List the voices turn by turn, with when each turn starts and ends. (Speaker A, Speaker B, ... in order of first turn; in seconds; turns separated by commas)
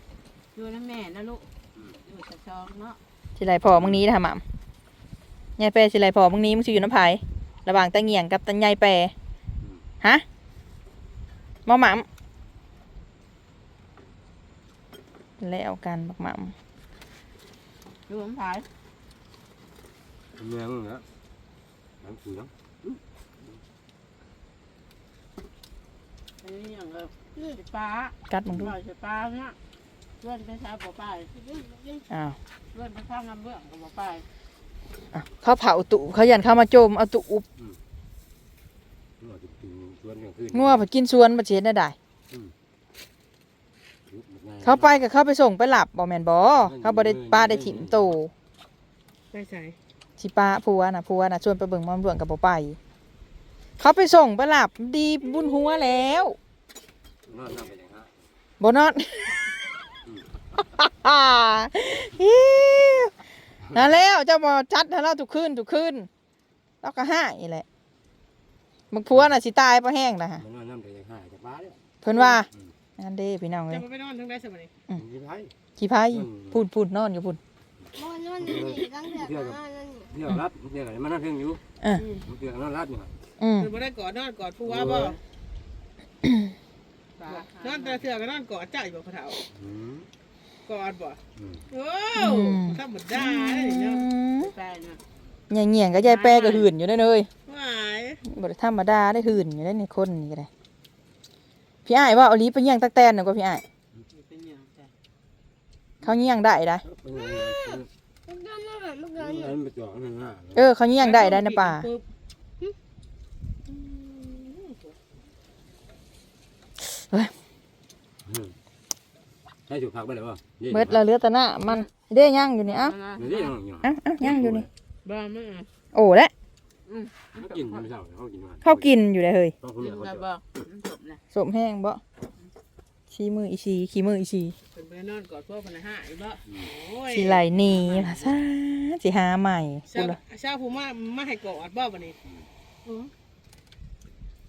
Speaker A: 0.5-1.5, Speaker A: 2.0-3.0, Speaker B: 3.4-4.4, Speaker C: 3.7-4.0, Speaker B: 5.6-9.1, Speaker B: 11.7-12.1, Speaker B: 15.4-16.5, Speaker A: 18.1-18.7, Speaker C: 20.4-21.1, Speaker C: 22.0-23.0, Speaker A: 26.4-29.6, Speaker B: 28.3-28.7, Speaker A: 30.2-31.3, Speaker D: 31.4-32.0, Speaker B: 32.1-32.4, Speaker A: 32.7-34.3, Speaker B: 35.1-37.5, Speaker C: 39.2-40.9, Speaker B: 40.5-42.0, Speaker C: 44.1-45.0, Speaker B: 44.6-48.3, Speaker C: 46.6-48.2, Speaker E: 49.3-49.8, Speaker B: 50.2-52.8, Speaker B: 53.8-56.4, Speaker C: 57.3-58.1, Speaker B: 58.6-59.5, Speaker B: 60.6-63.1, Speaker B: 63.7-66.1, Speaker B: 66.8-67.7, Speaker B: 68.9-70.4, Speaker C: 70.4-71.8, Speaker B: 72.0-73.8, Speaker E: 72.1-72.4, Speaker E: 73.7-74.7, Speaker C: 74.9-75.5, Speaker B: 75.8-77.4, Speaker C: 76.1-76.6, Speaker D: 77.9-80.1, Speaker C: 78.4-81.6, Speaker B: 81.8-82.1, Speaker E: 82.0-82.3, Speaker C: 82.2-83.1, Speaker B: 83.4-83.7, Speaker E: 83.6-85.2, Speaker C: 84.7-85.2, Speaker A: 87.2-88.0, Speaker E: 87.2-89.4, Speaker C: 89.5-90.1, Speaker E: 90.7-91.2, Speaker C: 91.4-91.7, Speaker E: 91.7-94.1, Speaker B: 92.2-94.5, Speaker A: 94.4-95.0, Speaker B: 95.5-97.3, Speaker A: 96.0-96.7, Speaker E: 97.5-98.2, Speaker B: 98.2-100.5, Speaker B: 101.9-103.6, Speaker A: 104.1-104.9, Speaker B: 106.0-106.8, Speaker C: 106.8-107.9, Speaker D: 107.2-107.5, Speaker D: 108.3-109.5, Speaker C: 109.2-110.6, Speaker B: 110.6-111.9, Speaker E: 111.0-112.0, Speaker E: 113.7-115.0, Speaker B: 116.8-117.3, Speaker C: 118.3-118.5, Speaker C: 119.7-121.0, Speaker B: 120.7-122.9, Speaker A: 122.6-123.5, Speaker C: 123.2-124.7, Speaker B: 123.8-124.7, Speaker A: 125.0-125.7, Speaker B: 125.9-126.3, Speaker A: 126.9-127.9, Speaker C: 127.4-128.9, Speaker B: 128.6-129.5, Speaker C: 129.6-130.3, Speaker A: 129.8-131.2, Speaker B: 131.3-132.0, Speaker B: 133.1-134.6, Speaker E: 134.7-138.4, Speaker B: 137.1-140.2, Speaker E: 139.9-142.2, Speaker A: 142.9-143.1